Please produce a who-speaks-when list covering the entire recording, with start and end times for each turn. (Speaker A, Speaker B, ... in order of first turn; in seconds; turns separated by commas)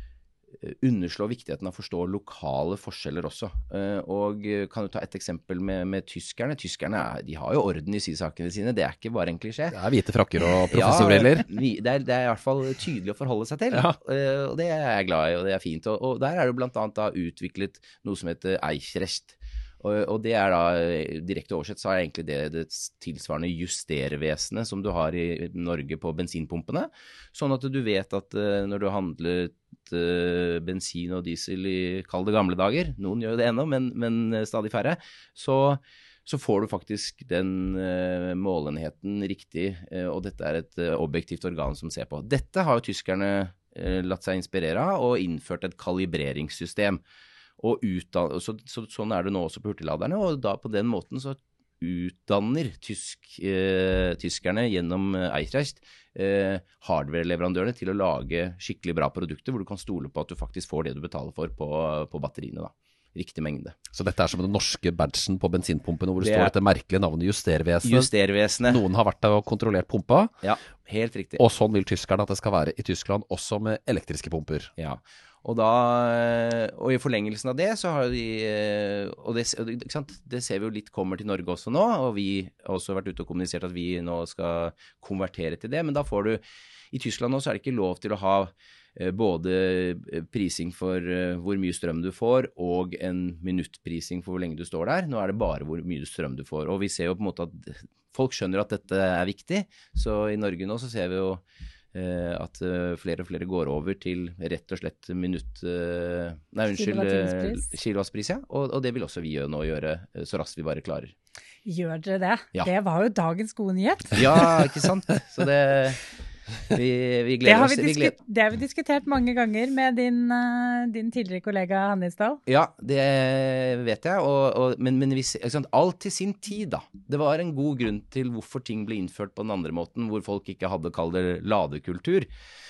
Speaker A: 0.6-9.8, Speaker B: 9.7-11.5, Speaker A: 10.7-47.0, Speaker A: 47.6-63.8, Speaker B: 63.9-68.1, Speaker A: 66.2-66.5, Speaker A: 67.8-68.8, Speaker B: 68.7-70.3, Speaker A: 70.4-71.4, Speaker B: 71.4-74.7, Speaker A: 74.8-101.4, Speaker A: 101.9-111.1, Speaker C: 106.7-107.7, Speaker C: 111.7-114.5, Speaker A: 114.1-116.0, Speaker A: 116.7-118.1, Speaker C: 117.4-122.4, Speaker A: 122.5-132.3